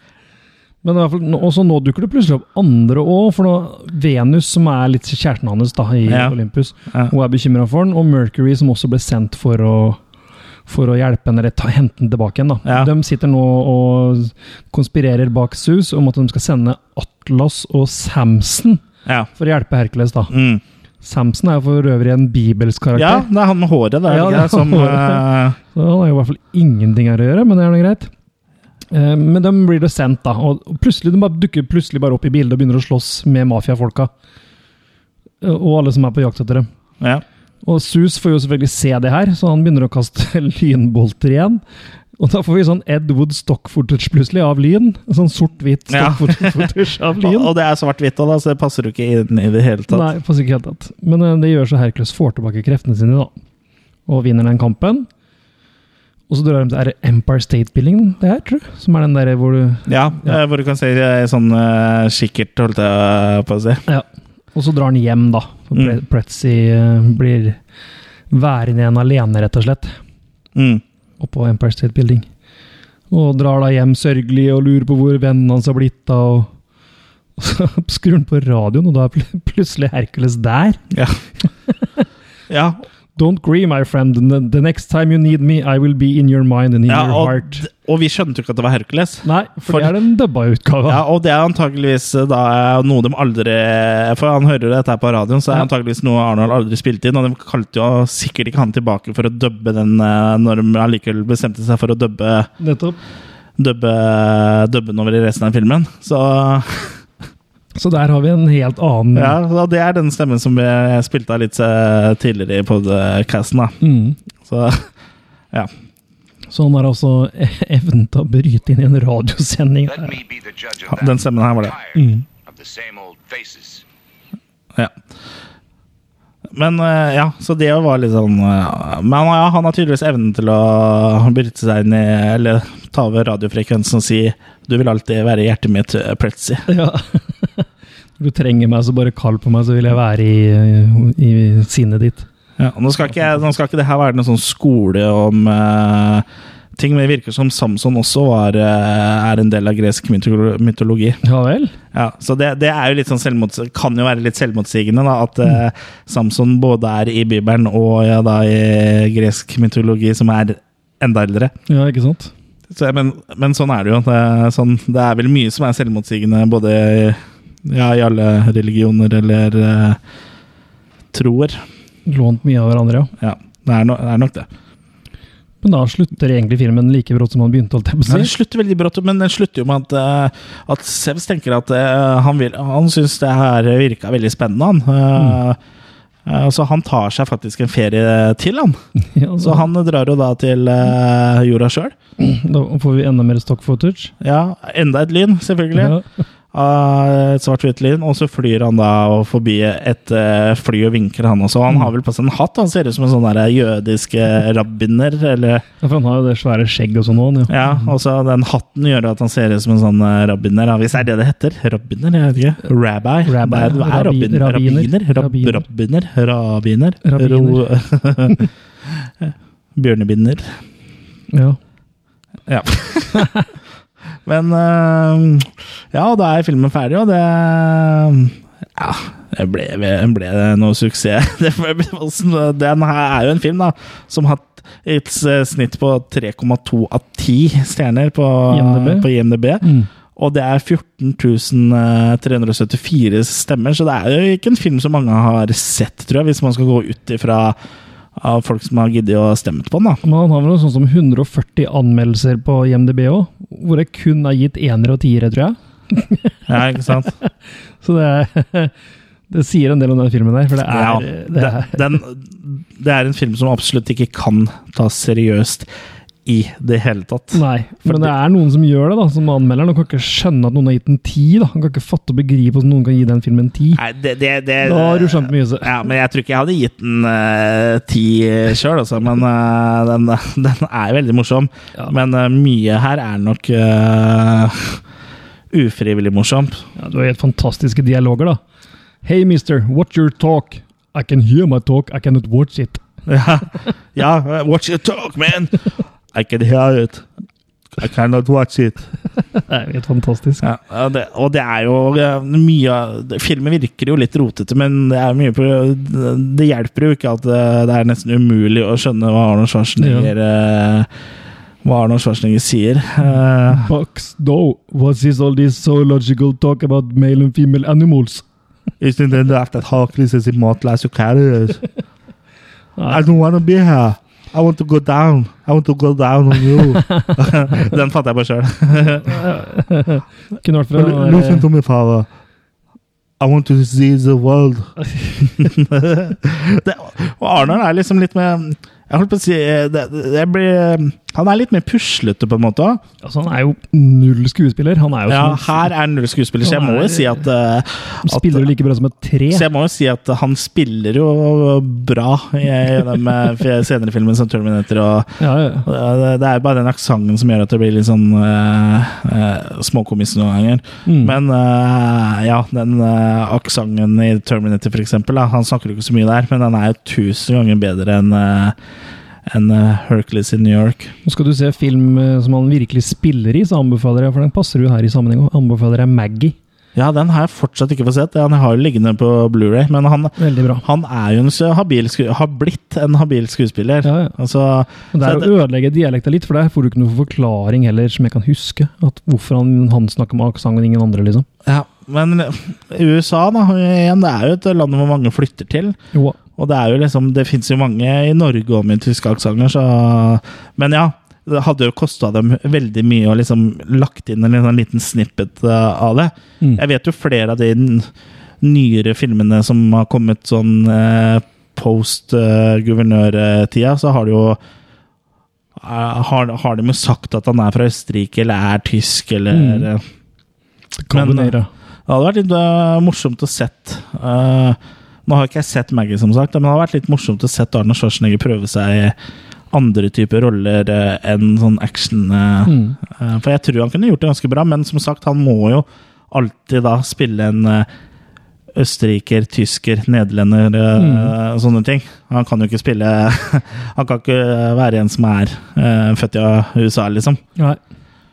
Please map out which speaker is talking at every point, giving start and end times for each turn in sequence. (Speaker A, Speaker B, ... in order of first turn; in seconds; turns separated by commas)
Speaker A: 0.8-10.0, Speaker B: 6.1-6.4, Speaker A: 10.7-18.8, Speaker B: 12.7-12.9, Speaker A: 19.4-20.3, Speaker B: 20.3-20.6, Speaker A: 21.0-23.3, Speaker B: 22.9-25.6, Speaker A: 24.1-28.1, Speaker A: 28.9-34.1, Speaker A: 35.4-36.7, Speaker A: 37.6-41.6, Speaker A: 42.2-47.5, Speaker B: 45.9-50.1, Speaker A: 49.9-53.3, Speaker A: 54.1-55.1, Speaker A: 56.3-60.4, Speaker B: 59.9-63.8, Speaker A: 63.9-67.6, Speaker B: 65.7-66.0, Speaker A: 68.3-70.0, Speaker B: 70.5-70.8, Speaker A: 71.2-72.3, Speaker A: 73.1-76.5, Speaker A: 77.4-80.8, Speaker B: 80.9-81.2, Speaker A: 81.7-82.0, Speaker B: 82.5-82.8, Speaker A: 83.2-87.7, Speaker B: 86.9-90.0, Speaker A: 89.2-91.0, Speaker B: 90.9-102.5, Speaker A: 102.6-103.0, Speaker B: 103.6-107.0, Speaker A: 107.8-109.4, Speaker B: 109.1-113.8, Speaker A: 113.8-114.2, Speaker B: 114.4-114.9, Speaker A: 116.5-120.1, Speaker C: 119.9-123.8, Speaker B: 120.9-121.8, Speaker A: 122.0-122.2, Speaker B: 126.5-136.7, Speaker A: 136.7-137.7, Speaker A: 138.2-142.3, Speaker B: 142.6-151.2, Speaker A: 151.2-151.8, Speaker B: 151.9-161.5, Speaker A: 161.7-162.3, Speaker B: 162.7-170.0, Speaker B: 171.1-171.6, Speaker A: 172.1-173.1, Speaker B: 173.2-174.5, Speaker A: 175.6-178.3, Speaker B: 178.1-185.6, Speaker B: 186.3-188.8, Speaker A: 189.1-189.7, Speaker B: 189.4-191.9, Speaker A: 192.2-194.1, Speaker B: 194.2-195.9, Speaker A: 195.8-196.1, Speaker B: 196.5-205.7, Speaker A: 205.8-207.8, Speaker B: 207.5-220.6, Speaker A: 213.3-215.6, Speaker A: 217.0-217.7, Speaker A: 221.3-221.6, Speaker B: 222.5-223.3, Speaker A: 223.2-223.4, Speaker B: 224.2-239.7, Speaker A: 238.5-239.1, Speaker A: 239.6-239.9, Speaker B: 240.2-247.6, Speaker B: 248.2-250.0, Speaker A: 250.0-256.4, Speaker B: 256.5-257.1, Speaker A: 257.8-258.7, Speaker A: 259.3-261.8, Speaker B: 260.7-265.7, Speaker B: 266.3-268.1, Speaker A: 267.3-273.8, Speaker B: 273.8-284.8, Speaker A: 274.6-275.7, Speaker B: 285.5-286.6, Speaker A: 286.8-288.4, Speaker A: 289.0-292.8, Speaker B: 293.1-297.1, Speaker B: 297.8-298.9, Speaker A: 299.4-300.4, Speaker B: 300.4-310.9, Speaker A: 309.8-310.1, Speaker B: 311.6-313.7, Speaker A: 313.5-318.2, Speaker B: 318.8-321.6, Speaker A: 322.8-323.0, Speaker B: 322.9-329.2, Speaker A: 326.9-327.6, Speaker A: 329.0-331.5, Speaker B: 330.7-332.1, Speaker B: 333.2-342.8, Speaker A: 334.8-335.4, Speaker A: 343.0-345.7, Speaker B: 345.1-348.5, Speaker A: 346.4-347.2, Speaker A: 348.1-349.5, Speaker B: 349.3-368.6, Speaker A: 355.2-355.7, Speaker A: 360.9-361.1, Speaker B: 369.3-370.9, Speaker A: 371.1-376.4, Speaker B: 376.8-385.3, Speaker A: 380.2-380.6, Speaker A: 383.8-384.1, Speaker A: 384.9-391.3, Speaker B: 391.4-395.8, Speaker B: 396.4-407.9, Speaker B: 408.4-414.4, Speaker B: 415.6-419.8, Speaker A: 419.3-419.7, Speaker A: 420.8-421.5, Speaker B: 420.9-421.4, Speaker B: 421.9-429.0, Speaker B: 429.5-437.7, Speaker A: 432.5-432.8, Speaker B: 438.6-447.2, Speaker A: 440.8-441.1